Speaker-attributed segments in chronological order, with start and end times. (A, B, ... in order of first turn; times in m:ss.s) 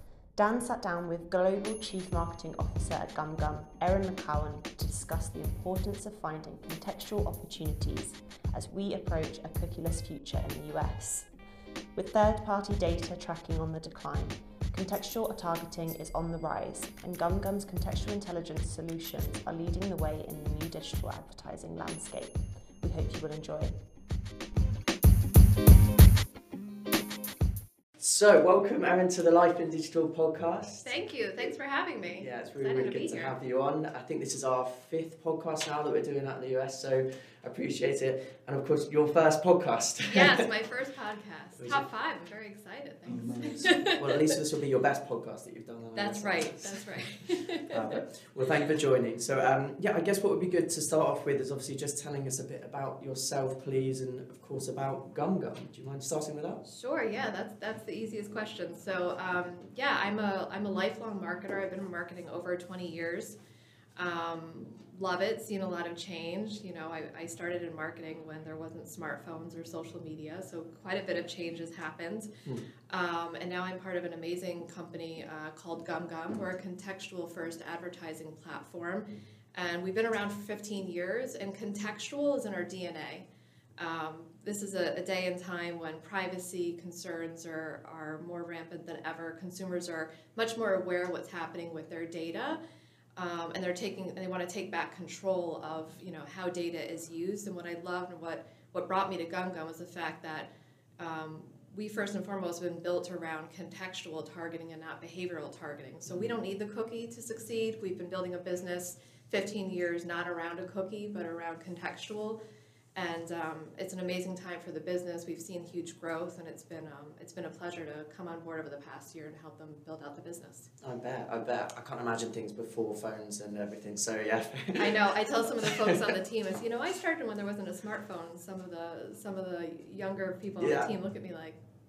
0:00.4-0:11.3 A
0:11.9-0:23.7 A
0:28.0-0:31.5 B
0:30.8-0:33.3 C
0:32.2-0:40.4 B
0:40.0-0:44.3 C
0:41.6-0:41.8 B
0:43.0-0:47.1 B
0:46.0-0:48.0 C
0:47.7-0:56.6 B
0:56.6-1:03.4 C
1:04.0-1:12.4 C
1:12.9-1:23.2 C
1:23.8-1:32.6 C
1:33.2-1:40.5 C
1:41.0-1:52.4 C
1:53.0-2:00.7 C
2:00.8-2:06.1 B
2:04.8-2:11.6 C
2:10.6-2:10.9 B